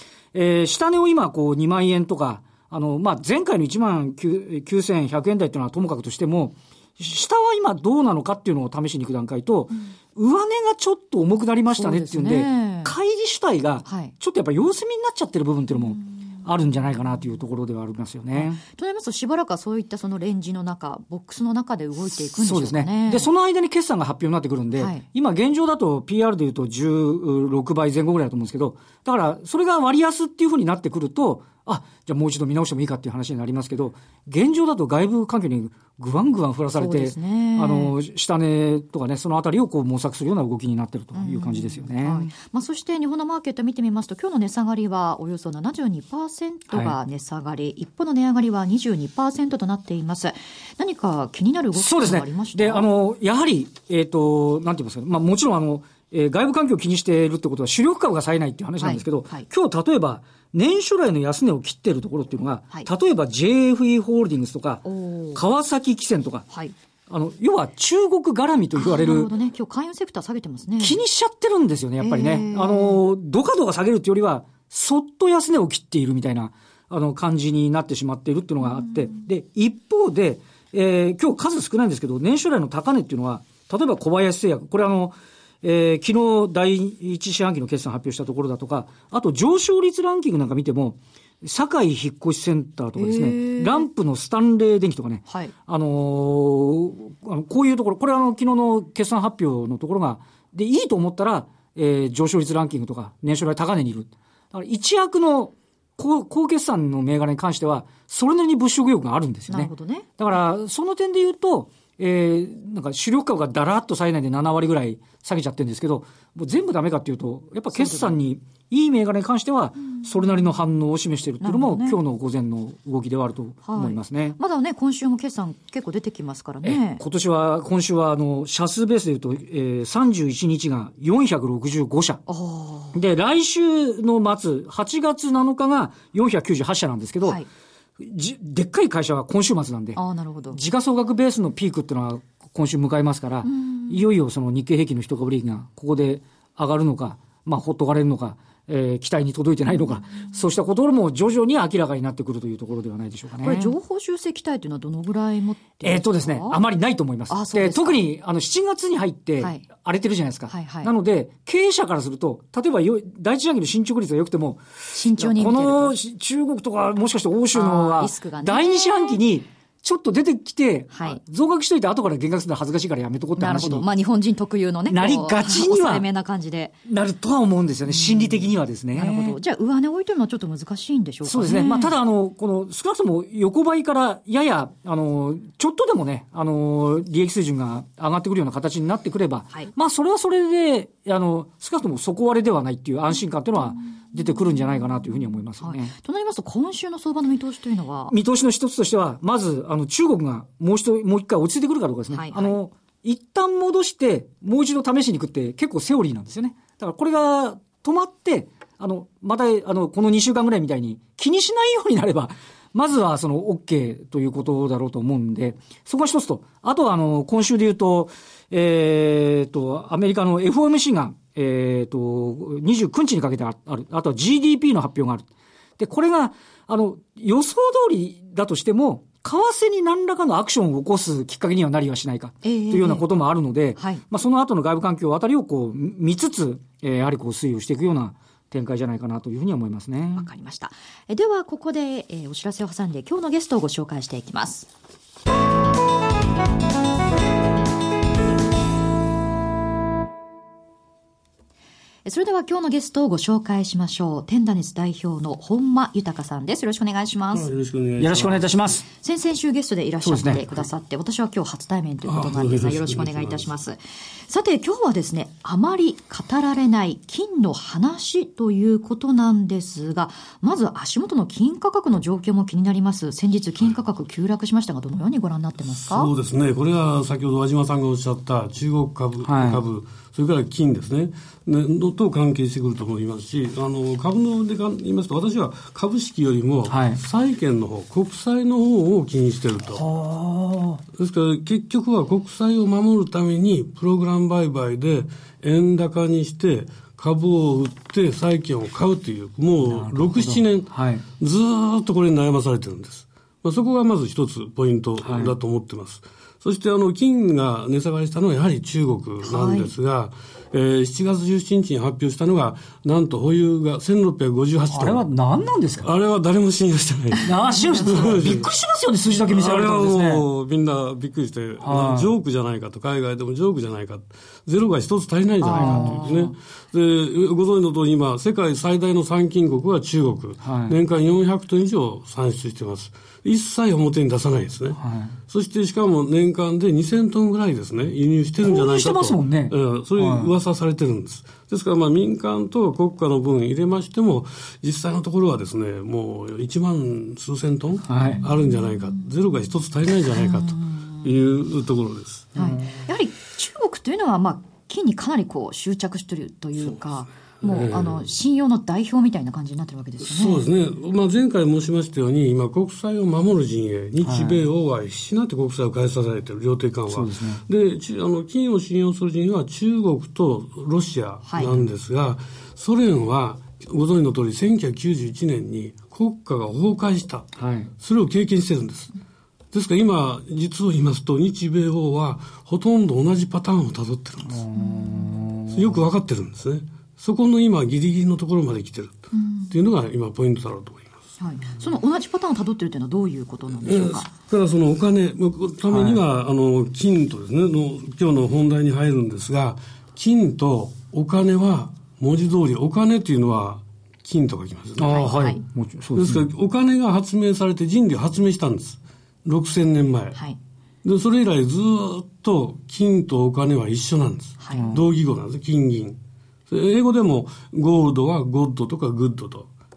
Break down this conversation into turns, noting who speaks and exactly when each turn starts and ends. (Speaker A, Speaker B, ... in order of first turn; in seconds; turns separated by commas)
Speaker A: 0.3-18.6, Speaker B: 11.8-12.9, Speaker B: 13.8-14.1, Speaker B: 18.3-23.3, Speaker A: 22.1-42.3, Speaker B: 24.7-25.0, Speaker B: 36.8-37.9, Speaker B: 41.1-52.9, Speaker A: 46.7-47.0, Speaker A: 51.8-66.5, Speaker B: 58.8-59.5, Speaker B: 64.8-65.4, Speaker A: 67.1-69.3, Speaker B: 68.8-71.0, Speaker A: 70.8-124.4, Speaker B: 72.0-73.0, Speaker B: 78.8-79.1, Speaker B: 93.0-93.9, Speaker B: 95.3-95.5, Speaker B: 109.5-110.1, Speaker B: 117.7-118.2, Speaker B: 119.9-120.4, Speaker B: 121.4-122.0, Speaker B: 123.7-127.0, Speaker A: 126.6-132.2, Speaker B: 132.3-133.0, Speaker A: 132.9-137.4, Speaker A: 138.0-140.0, Speaker B: 139.9-140.6, Speaker A: 140.5-153.7, Speaker B: 143.4-144.0, Speaker B: 153.4-156.6, Speaker A: 155.8-173.9, Speaker B: 157.3-158.0, Speaker B: 159.4-159.7, Speaker B: 160.5-160.9, Speaker B: 164.9-166.0, Speaker B: 167.5-169.2, Speaker B: 170.9-171.2, Speaker B: 173.4-176.8, Speaker A: 174.9-176.1, Speaker A: 176.9-179.4, Speaker B: 177.9-181.9, Speaker A: 181.2-195.9, Speaker B: 195.6-198.2, Speaker A: 198.1-225.3, Speaker B: 202.1-202.6, Speaker A: 225.8-240.3, Speaker B: 232.4-233.1, Speaker B: 233.8-234.0, Speaker B: 240.2-244.7, Speaker B: 252.1-257.5, Speaker C: 257.3-258.6, Speaker A: 258.0-258.9, Speaker B: 258.9-276.1, Speaker A: 260.0-260.5, Speaker C: 262.1-263.5, Speaker C: 275.7-289.8, Speaker A: 279.2-279.6, Speaker A: 286.7-287.0, Speaker A: 289.8-290.8, Speaker C: 290.9-315.1, Speaker A: 299.6-301.1, Speaker A: 305.0-305.3, Speaker B: 309.2-309.7, Speaker A: 314.7-315.9, Speaker C: 315.8-318.5, Speaker A: 317.2-320.2, Speaker C: 319.3-352.3, Speaker A: 321.6-322.1, Speaker B: 325.4-326.3, Speaker A: 325.5-326.1, Speaker A: 330.4-330.8, Speaker A: 334.8-335.2, Speaker A: 338.4-340.3, Speaker A: 347.9-348.2, Speaker B: 350.1-351.1, Speaker A: 352.4-352.8, Speaker B: 352.4-360.4, Speaker C: 356.6-358.1, Speaker C: 360.0-378.9, Speaker A: 364.0-364.4, Speaker A: 366.9-367.4, Speaker B: 371.3-371.5, Speaker A: 377.4-377.7, Speaker C: 379.5-384.4, Speaker A: 384.2-385.8, Speaker B: 384.6-385.2, Speaker C: 385.5-389.0, Speaker B: 389.1-389.5, Speaker C: 389.5-391.1, Speaker B: 391.2-394.1, Speaker C: 393.6-405.0, Speaker A: 395.7-396.0, Speaker A: 404.8-406.3, Speaker B: 404.9-405.4, Speaker C: 406.0-410.2, Speaker C: 410.8-416.0, Speaker B: 414.4-414.7, Speaker A: 414.5-414.9, Speaker C: 416.5-419.5